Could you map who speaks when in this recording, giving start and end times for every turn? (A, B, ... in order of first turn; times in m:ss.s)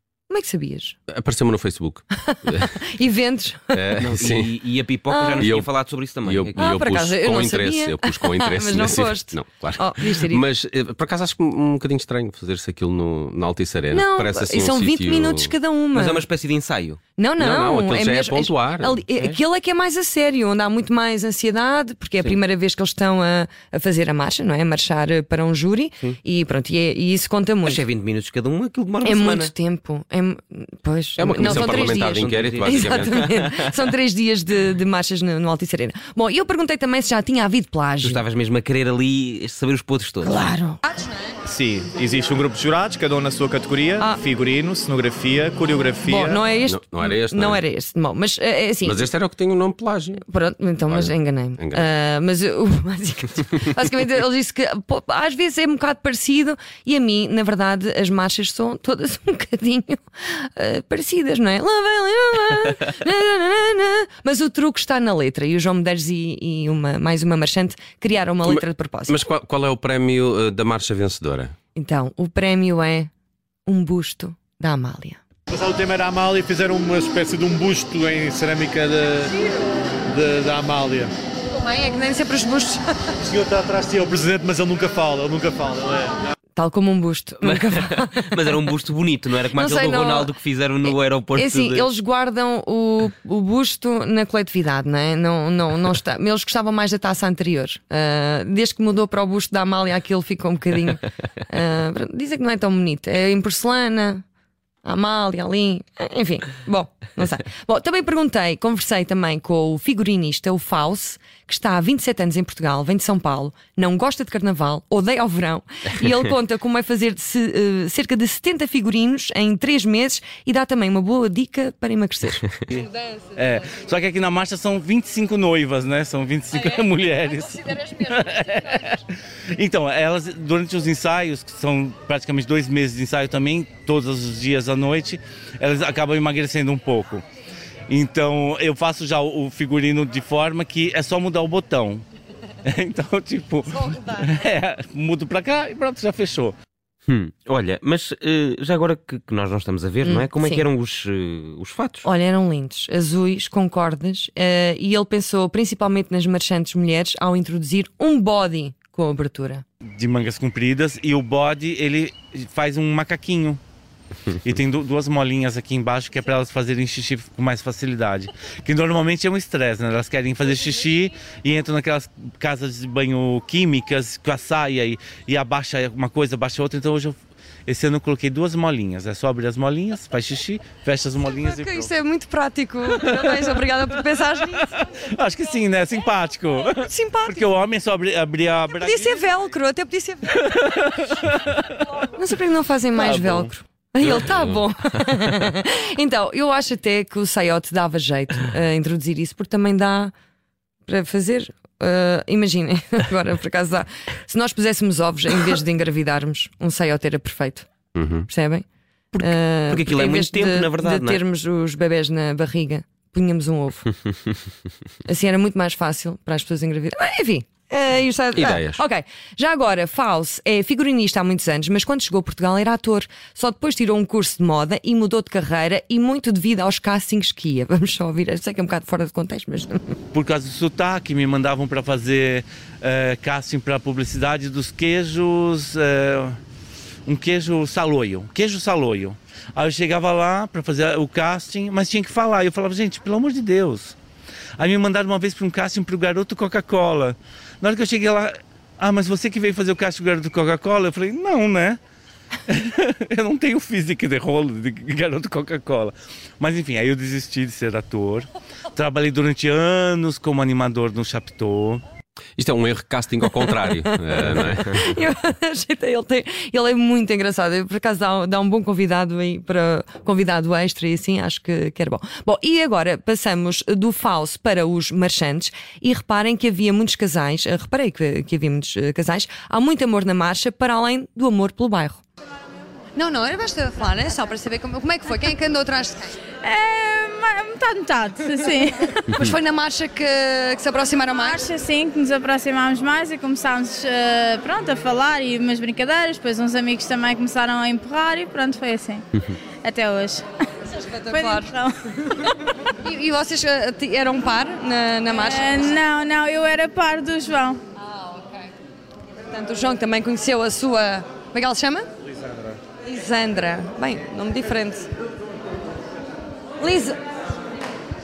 0:00.3-0:01.0 A
0:01.1-0:02.8 B
0:02.3-0:03.9 A
0:03.7-0:04.6 B
0:04.0-0:06.6 C
0:05.1-0:05.5 A
0:05.3-0:15.5 B
0:06.6-0:10.4 A
0:13.9-0:16.2 A
0:15.9-0:17.0 C
0:17.2-0:27.8 A
0:17.4-0:19.0 B
0:27.6-0:29.5 C
0:29.0-0:38.2 A
0:31.2-0:33.4 B
0:31.3-0:33.7 C
0:38.0-0:40.3 C
0:40.2-0:40.8 A
0:41.4-0:46.4 D
0:46.0-0:49.1 A
0:46.6-0:47.6 B
0:48.8-0:50.2 B
0:50.2-1:09.2 A
0:50.9-0:51.8 B
1:08.4-1:11.5 B
1:11.8-1:13.1 A
1:13.6-1:15.2 A
1:15.5-1:19.3 E
1:20.1-1:21.1 E
1:21.6-1:22.8 F
1:22.3-1:22.7 A
1:23.2-1:26.1 E
1:26.6-1:28.6 A
1:27.4-1:31.9 C
1:29.5-1:44.2 A
1:44.8-2:02.5 A
2:02.7-2:09.0 G
2:09.5-2:17.2 G
2:17.9-2:22.0 G
2:22.6-2:26.5 G
2:27.1-2:32.0 C
2:30.0-2:30.6 A
2:32.0-2:39.6 A
2:40.0-2:43.6 G
2:44.4-2:57.1 G
2:57.7-3:01.9 G
3:01.2-3:04.7 A
3:02.9-3:03.6 G
3:05.1-3:09.3 G
3:06.8-3:07.4 A
3:08.8-3:10.5 A
3:10.4-3:11.7 G
3:12.0-3:20.1 A
3:12.9-3:13.5 G
3:14.0-3:14.6 B
3:20.8-3:27.7 A
3:27.9-3:28.3 B
3:28.3-3:28.6 A
3:29.1-3:31.2 C
3:29.2-3:33.9 A
3:35.0-3:50.0 A
3:38.4-3:38.8 B
3:50.1-3:56.4 G
3:57.1-4:03.9 G
4:04.6-4:11.8 G
4:12.5-4:21.8 G
4:22.4-4:24.8 B
4:23.3-4:42.0 A
4:42.9-4:46.1 F
4:46.4-4:49.2 H
4:49.1-4:51.4 F
4:51.1-4:59.0 H
4:59.6-5:00.2 H
5:00.9-5:01.2 F
5:01.1-5:01.8 H
5:02.8-5:05.5 F
5:04.7-5:05.7 A
5:05.1-5:07.6 H
5:09.3-5:11.9 F
5:12.9-5:14.9 F
5:13.0-5:13.8 A
5:16.6-5:16.9 A